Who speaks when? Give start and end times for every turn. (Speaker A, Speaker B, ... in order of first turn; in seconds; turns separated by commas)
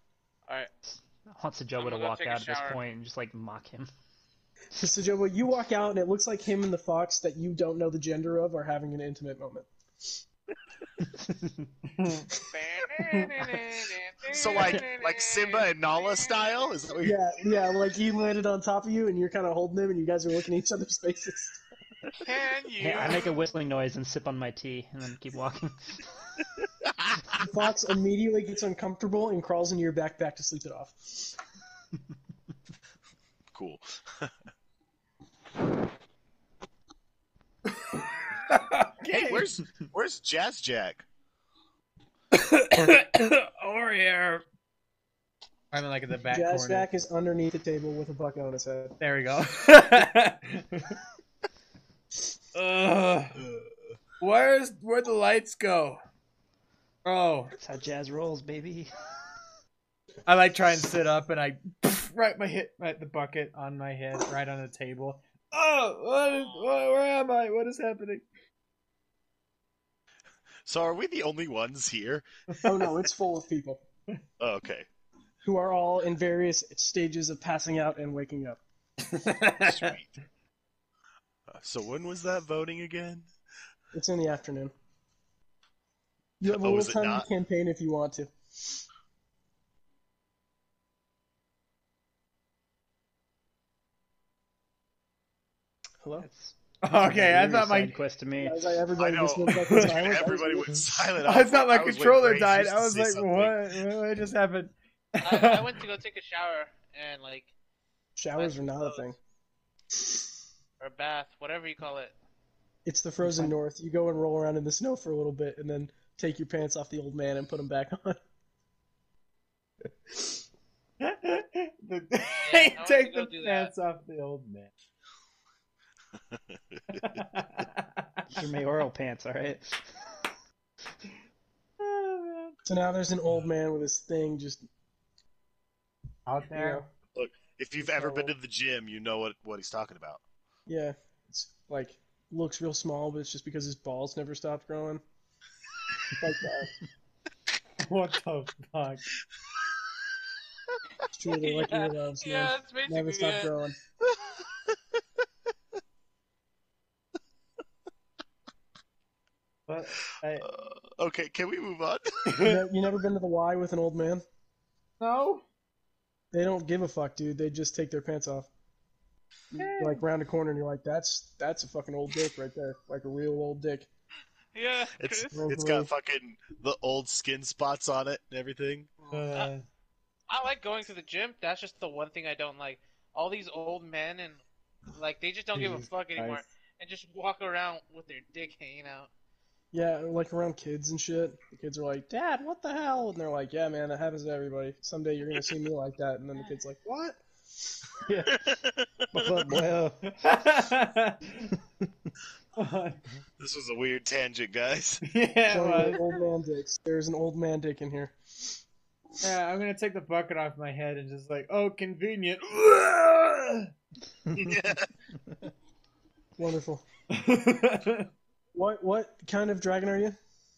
Speaker A: 0.9-3.9, Speaker B: 1.8-2.8, Speaker C: 4.8-10.2, Speaker A: 11.0-11.7, Speaker D: 11.9-12.3, Speaker B: 12.5-16.5, Speaker E: 14.3-17.1, Speaker A: 14.5-14.8, Speaker C: 17.0-21.6, Speaker B: 22.2-23.3, Speaker A: 22.8-25.9, Speaker C: 27.4-31.4, Speaker E: 33.5-34.3, Speaker D: 37.7-39.5, Speaker E: 39.1-41.0, Speaker D: 42.3-44.4, Speaker D: 45.7-46.9, Speaker C: 46.3-49.0, Speaker D: 49.0-51.0, Speaker D: 52.5-53.4, Speaker D: 54.2-56.0, Speaker D: 57.0-57.5, Speaker A: 57.6-58.9, Speaker D: 60.2-68.2, Speaker E: 70.7-72.2, Speaker C: 72.6-73.8, Speaker E: 74.4-74.9, Speaker C: 75.4-78.6, Speaker D: 79.1-79.9, Speaker E: 79.6-80.1, Speaker E: 81.5-83.3, Speaker C: 83.9-84.7, Speaker C: 86.4-88.8, Speaker E: 86.4-87.2, Speaker C: 96.0-96.3, Speaker A: 96.2-98.6, Speaker D: 96.8-98.0, Speaker C: 98.4-100.7, Speaker E: 99.0-103.6, Speaker D: 101.2-105.8, Speaker B: 105.2-107.5, Speaker C: 108.2-109.2, Speaker B: 108.4-109.0, Speaker B: 110.8-112.1, Speaker C: 112.8-118.2, Speaker D: 121.0-124.7, Speaker B: 122.4-123.7, Speaker E: 126.3-127.2, Speaker D: 127.0-128.2, Speaker A: 128.3-129.8, Speaker D: 131.8-132.6, Speaker C: 132.7-134.7, Speaker D: 136.2-136.8, Speaker C: 136.5-136.8, Speaker E: 137.1-140.2, Speaker C: 137.9-138.3, Speaker C: 140.7-145.0, Speaker C: 146.2-146.7, Speaker D: 147.8-149.0, Speaker C: 151.1-153.8, Speaker B: 151.4-153.5, Speaker D: 159.7-160.5, Speaker E: 160.4-162.3, Speaker D: 162.3-162.6, Speaker C: 162.4-164.2, Speaker D: 165.0-165.4, Speaker C: 166.3-168.5, Speaker C: 169.5-173.9, Speaker D: 169.6-170.0, Speaker B: 174.5-175.4, Speaker E: 175.0-179.0, Speaker C: 175.3-175.9, Speaker D: 179.1-179.6, Speaker B: 180.3-184.4, Speaker B: 184.9-189.1, Speaker D: 185.5-186.4, Speaker C: 189.7-197.2, Speaker A: 198.1-198.4, Speaker E: 198.3-199.2, Speaker A: 199.1-199.7, Speaker C: 199.1-199.9, Speaker D: 200.0-201.5, Speaker D: 202.6-203.0, Speaker E: 203.4-205.0, Speaker D: 205.0-206.0, Speaker C: 205.5-208.2, Speaker D: 209.2-213.7, Speaker E: 214.3-214.9, Speaker C: 216.4-216.8, Speaker D: 217.1-218.1, Speaker C: 218.5-220.2